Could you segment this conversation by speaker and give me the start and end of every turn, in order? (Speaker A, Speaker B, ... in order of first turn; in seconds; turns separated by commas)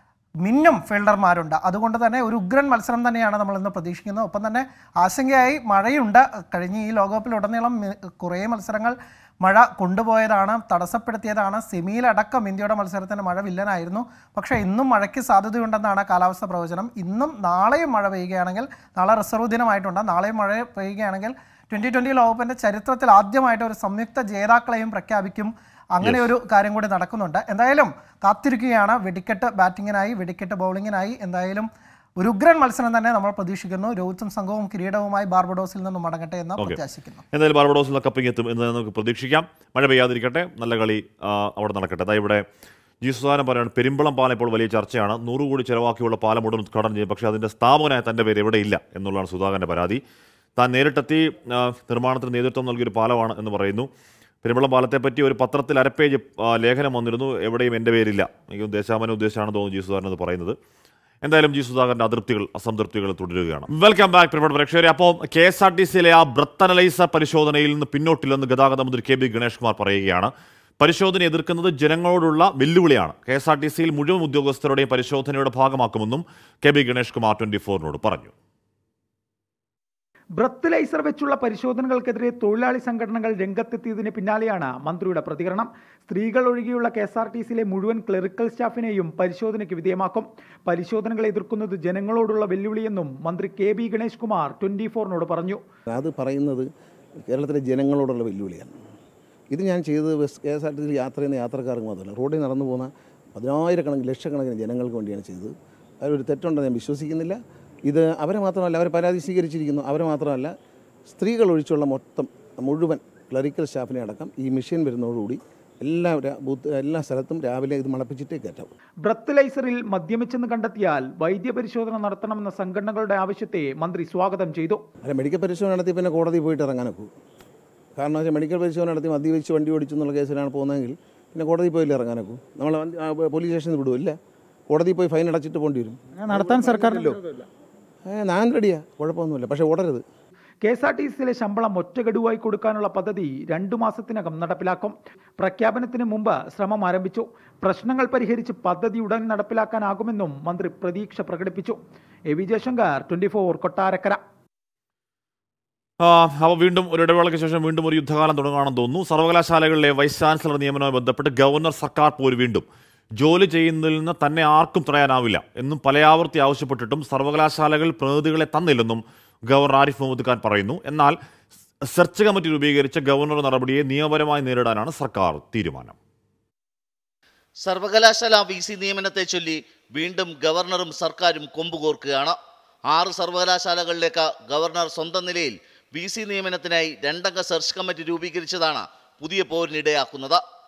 Speaker A: 0.4-31.7, Speaker A: 32.2-37.2, Speaker B: 37.3-42.4, Speaker B: 43.0-50.0, Speaker B: 50.6-53.9, Speaker B: 54.4-60.6, Speaker B: 61.2-78.3, Speaker C: 80.4-95.6, Speaker D: 95.9-96.7, Speaker D: 97.3-98.8, Speaker D: 99.5-110.5, Speaker D: 111.1-118.7, Speaker C: 119.0-124.8, Speaker D: 125.0-127.1, Speaker D: 128.0-134.2, Speaker D: 134.7-137.1, Speaker C: 136.2-137.2, Speaker D: 138.1-140.0, Speaker C: 140.6-151.8, Speaker C: 152.3-154.2, Speaker B: 156.0-162.7, Speaker B: 163.2-171.2, Speaker B: 171.9-175.9, Speaker E: 177.7-182.4, Speaker E: 182.9-190.4